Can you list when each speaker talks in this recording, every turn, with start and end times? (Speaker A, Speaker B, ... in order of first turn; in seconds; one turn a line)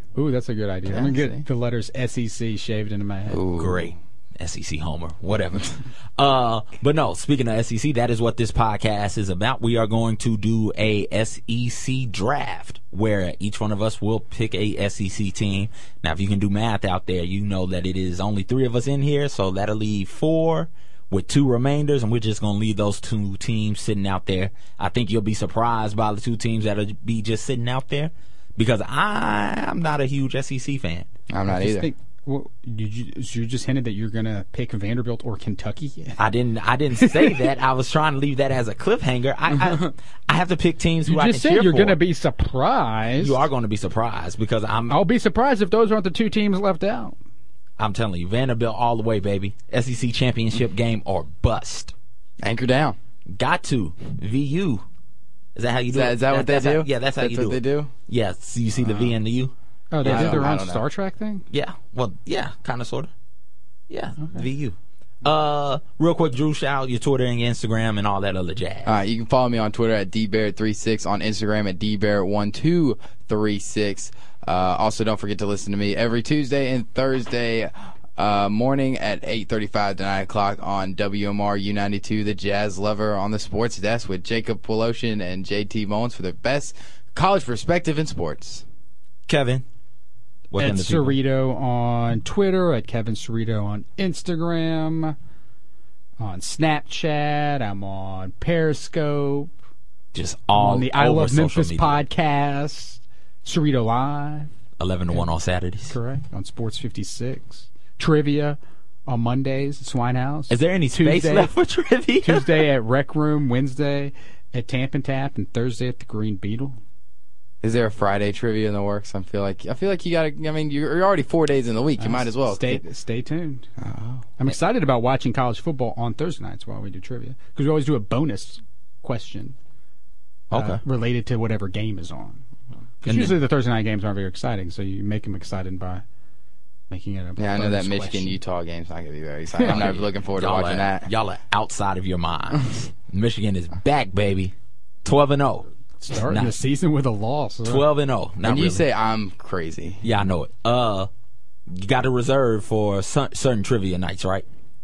Speaker A: 0.1-3.4
Speaker B: 0.9-1.4
Speaker B: 3.3-3.9
Speaker C: 3.6-31.1
Speaker B: 31.3-31.9
Speaker A: 31.5-36.2
Speaker C: 36.2-42.0
Speaker A: 36.9-37.4
Speaker A: 41.1-43.4
Speaker C: 43.2-45.0
Speaker A: 44.9-47.2
Speaker C: 47.8-51.9
Speaker B: 52.4-53.0
Speaker C: 53.4-54.8
Speaker C: 55.5-60.5
Speaker B: 55.9-57.9
Speaker B: 58.8-59.1
Speaker A: 59.9-61.4
Speaker B: 60.0-60.8
Speaker C: 61.5-63.1
Speaker C: 63.9-69.0
Speaker B: 68.8-88.6
Speaker C: 89.3-89.6
Speaker C: 90.5-91.2
Speaker A: 90.6-95.2
Speaker A: 96.2-99.5
Speaker C: 100.1-102.0
Speaker A: 100.5-104.5
Speaker C: 104.8-106.0
Speaker A: 105.9-111.5
Speaker C: 110.5-112.7
Speaker A: 112.2-116.8
Speaker B: 117.6-122.8
Speaker A: 122.0-123.7
Speaker B: 123.8-124.2
Speaker A: 124.4-129.6
Speaker C: 130.5-130.8
Speaker A: 130.5-132.4
Speaker A: 133.0-136.0
Speaker C: 133.1-133.4
Speaker A: 136.9-138.4
Speaker B: 137.4-141.1
Speaker C: 139.6-144.5
Speaker C: 145.1-145.7
Speaker A: 146.0-147.8
Speaker C: 146.3-146.6
Speaker C: 147.7-148.8
Speaker B: 148.4-150.1
Speaker C: 150.0-151.1
Speaker C: 151.7-154.4